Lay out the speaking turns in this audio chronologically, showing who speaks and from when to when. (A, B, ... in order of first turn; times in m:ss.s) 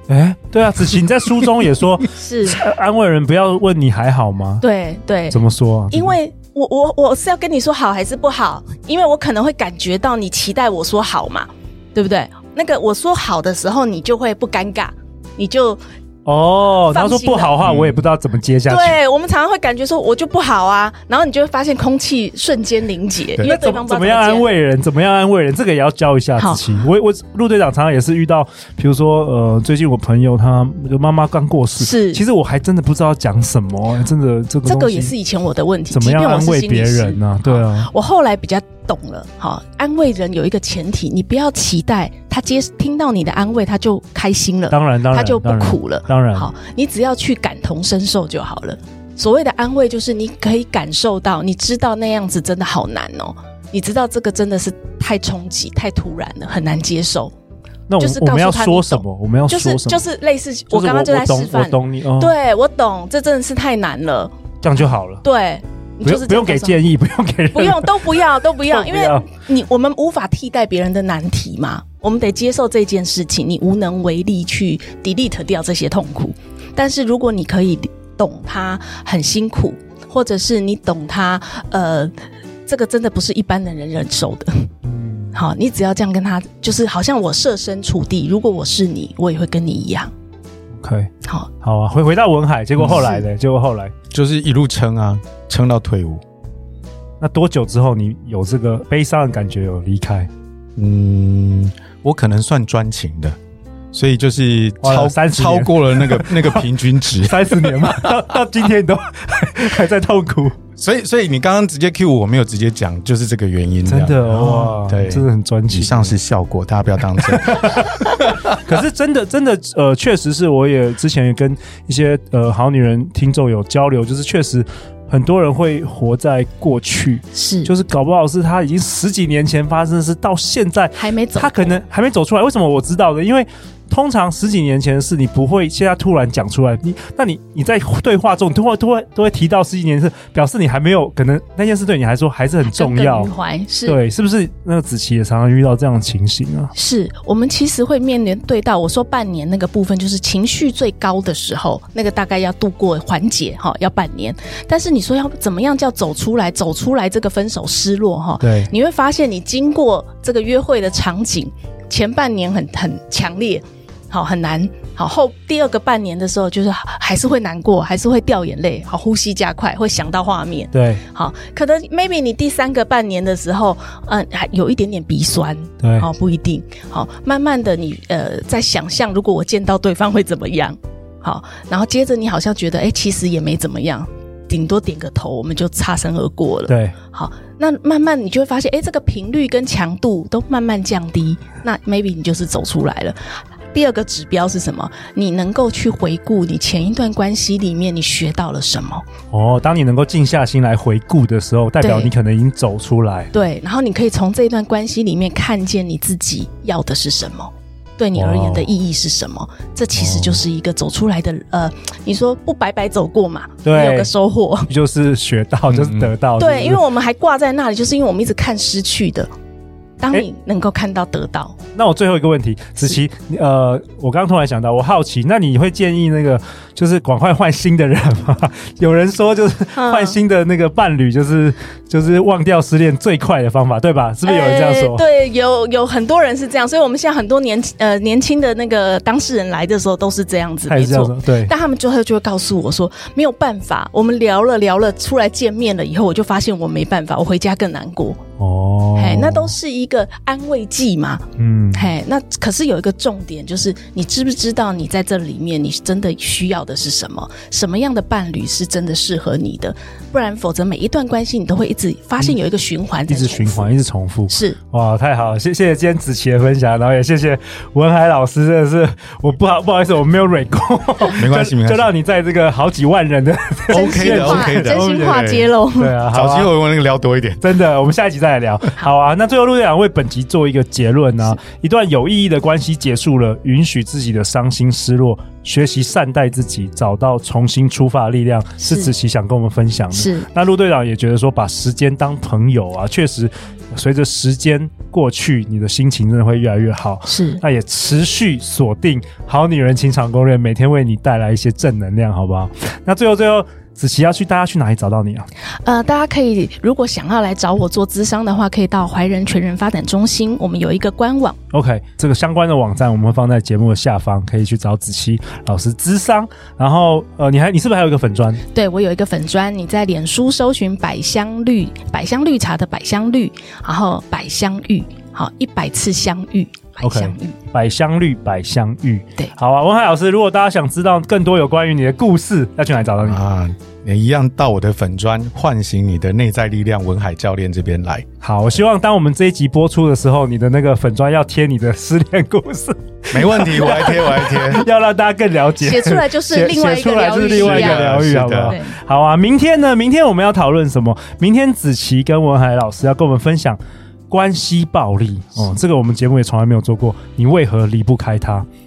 0:00.1-0:04.6 A
0:02.2-0:02.6 B
0:04.6-0:15.8 B
0:05.3-0:06.2 A
0:16.2-0:19.0 A
0:16.8-0:17.6 B
0:17.6-0:18.0 C
0:18.7-0:24.5 B
0:23.4-0:35.1 A
0:26.4-0:26.6 B
0:31.8-0:32.2 B
0:34.6-0:57.3 B
0:35.9-0:37.9 A
0:44.7-0:46.5 A
0:57.9-1:00.0 A
0:58.0-1:04.3 B
1:00.7-1:02.3 A
1:04.6-1:05.2 A
1:05.2-1:06.8 B
1:06.0-1:09.2 A
1:07.5-1:22.1 B
1:22.6-1:24.7 B
1:24.8-1:25.4 A
1:25.3-1:30.1 B
1:30.8-1:31.1 A
1:31.6-1:33.9 A
1:32.8-1:33.0 C
1:32.9-1:33.2 B
1:34.1-1:36.2 C
1:37.2-1:40.3 A
1:40.8-1:43.4 C
1:43.9-1:48.2 C
1:44.8-1:50.6 A
1:50.8-1:58.5 C
1:53.8-1:56.1 A
1:57.2-2:23.3 A
2:07.3-2:07.7 B
2:10.9-2:11.8 B
2:22.6-2:24.0 B
2:23.8-2:26.7 A
2:26.7-3:19.0 B
2:38.4-2:38.7 A
2:50.7-2:51.0 A
2:55.8-2:56.1 A
3:06.7-3:06.9 A
3:19.3-3:23.3 A
3:21.8-3:22.1 B
3:23.3-3:34.7 B
3:28.1-3:28.7 A
3:30.0-3:30.4 A
3:33.6-3:34.1 A
3:34.6-3:36.8 A
3:35.7-3:36.1 C
3:36.4-3:39.3 B
3:40.0-3:41.6 B
3:41.8-3:55.0 A
3:49.8-3:50.2 B
3:54.2-4:08.2 B
4:00.7-4:01.5 A
4:08.4-4:09.5 A
4:09.0-4:23.7 B
4:11.4-4:11.9 A
4:23.1-4:36.5 A
4:24.3-4:24.6 B
4:31.1-4:31.9 C
4:33.7-4:36.0 B
4:33.7-4:35.5 C
4:36.1-4:37.4 C
4:37.4-5:05.3 A
4:48.6-4:48.9 B
4:49.9-4:50.3 B
4:57.1-4:57.4 B
5:05.6-5:11.4 B
5:11.5-5:18.4 A
5:18.5-5:27.4 B
5:26.8-5:33.2 A
5:33.0-5:38.0 C
5:38.2-5:53.6 A
5:43.1-5:44.7 C
5:45.6-5:48.7 B
5:47.3-5:48.6 C
5:54.1-5:58.4 A